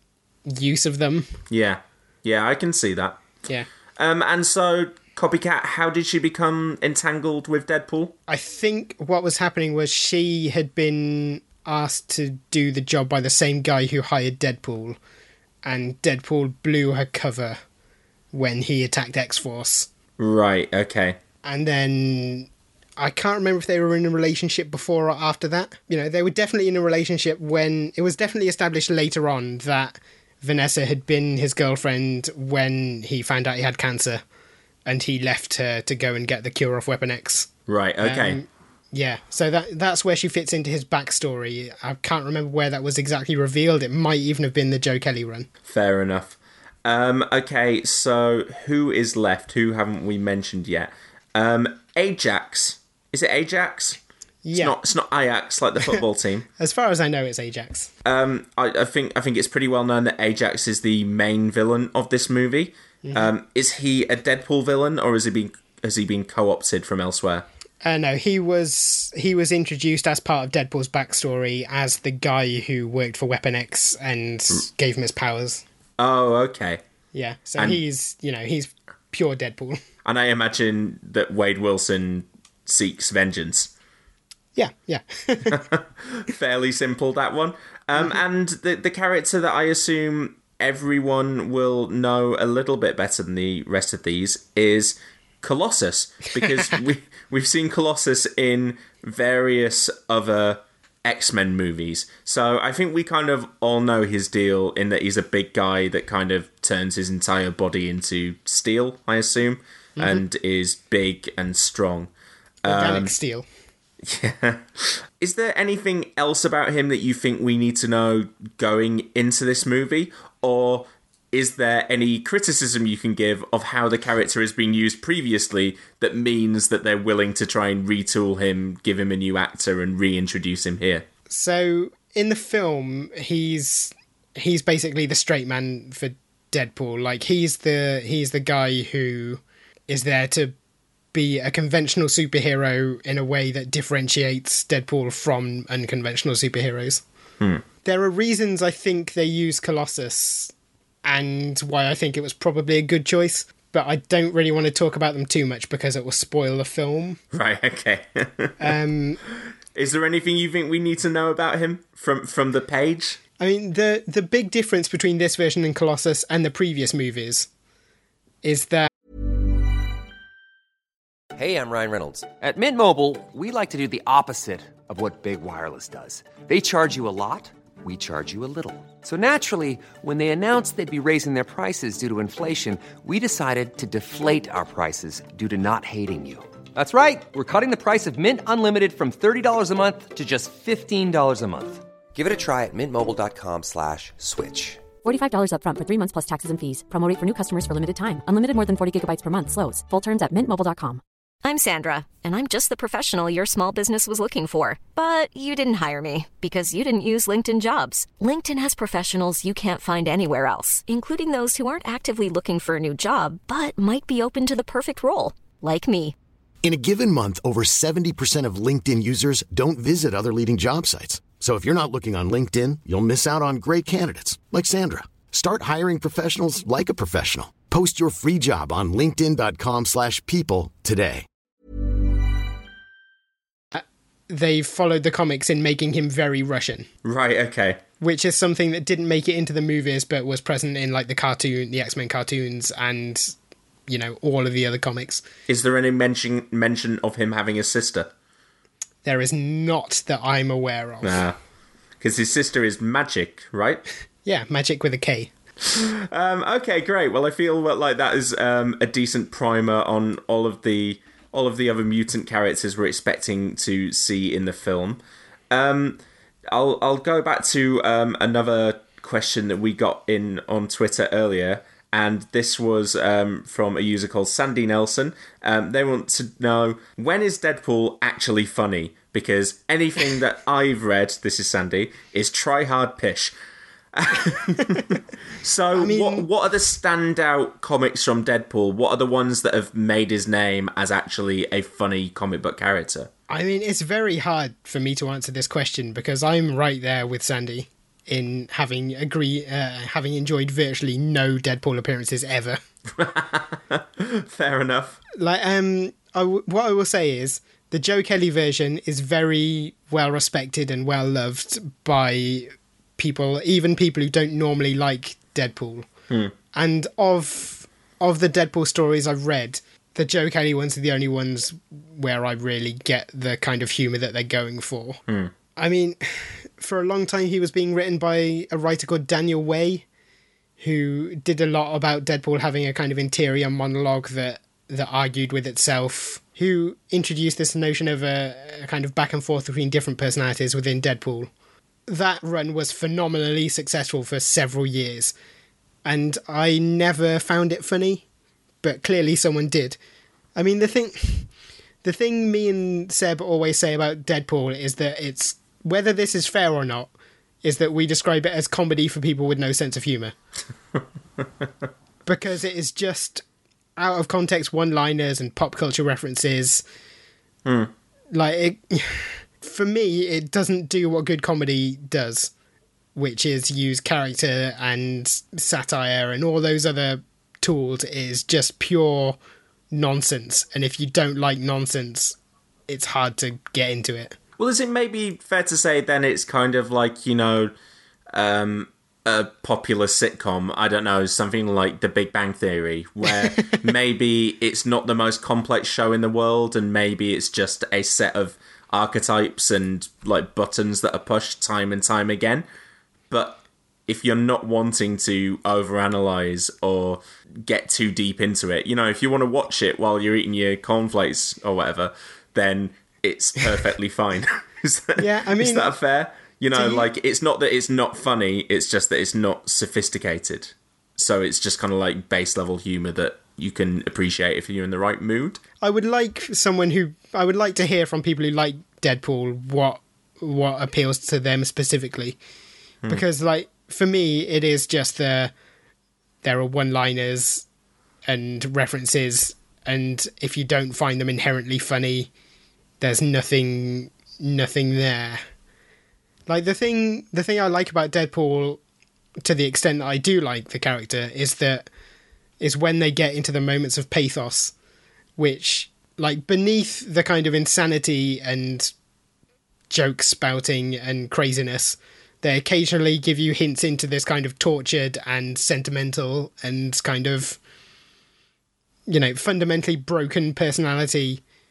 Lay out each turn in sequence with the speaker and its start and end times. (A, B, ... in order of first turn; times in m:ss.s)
0:00.5-0:01.4 A
0:01.5-0:03.2 B
0:04.0-0:08.1 B
0:08.3-0:15.0 A
0:15.6-0:17.6 A
0:18.3-0:19.9 A
0:20.2-0:21.2 B
0:21.4-0:34.2 A
0:34.9-0:37.5 A
0:37.7-0:38.4 B
0:38.0-0:45.5 A
0:45.6-0:54.0 B
0:54.4-0:54.8 A
0:54.5-0:56.5 B
0:56.6-0:57.9 A
0:58.0-1:07.5 B
1:03.0-1:03.3 A
1:07.8-1:15.6 A
1:16.0-1:16.8 B
1:17.1-1:19.8 A
1:20.0-1:23.7 B
1:24.6-1:25.6 A
1:25.5-1:52.1 B
1:50.0-1:50.2 A
1:52.6-1:53.1 B
1:52.7-1:53.5 A
1:54.0-2:11.1 B
2:11.3-2:20.5 A
2:21.1-2:27.0 A
2:27.8-2:30.5 A
2:31.0-2:37.2 A
2:37.3-2:38.7 B
2:38.6-2:39.2 A
2:39.7-2:43.2 B
2:43.4-2:47.5 A
2:48.4-2:48.9 A
2:51.4-3:14.9 C
3:15.0-3:21.0 D
3:21.4-3:36.2 E
3:36.6-3:51.3 F
3:53.7-3:56.9 A
3:57.0-3:57.8 B
3:58.0-4:03.4 A
4:03.9-4:05.2 A
4:05.5-4:08.1 B
4:09.0-4:11.2 A
4:11.0-4:11.4 B
4:12.0-4:13.8 B
4:14.2-4:15.3 A
4:15.6-4:25.0 B
4:25.5-4:43.4 B
4:43.9-4:53.1 B
4:45.7-4:46.3 A
4:53.3-5:02.6 A
5:03.0-5:05.0 B
5:05.2-5:15.9 A
5:16.5-5:25.0 A
5:25.6-5:29.8 A
5:30.6-5:41.3 A
5:41.9-5:45.1 A
5:45.8-5:48.0 A
5:48.6-5:49.8 A
5:50.4-5:51.3 A
5:51.8-5:56.9 A
5:57.4-6:00.2 A
6:02.1-6:03.2 A
6:03.8-6:06.6 A
6:07.4-6:07.7 B
6:08.1-6:12.3 A
6:13.0-6:19.2 A
6:19.7-6:22.2 A
6:22.7-6:24.2 A
6:24.4-6:27.5 B
6:28.1-6:42.5 B
6:43.1-7:05.4 B
6:55.0-6:55.7 A
6:56.5-6:56.9 A
7:05.6-7:12.2 A
7:12.9-7:15.3 A
7:16.2-7:17.4 A
7:18.1-7:22.1 A
7:22.8-7:25.2 A
7:26.3-7:28.6 A
7:29.2-7:31.7 A
7:32.4-7:34.5 A
7:35.2-7:38.7 A
7:39.7-7:47.4 A
7:48.9-7:51.2 A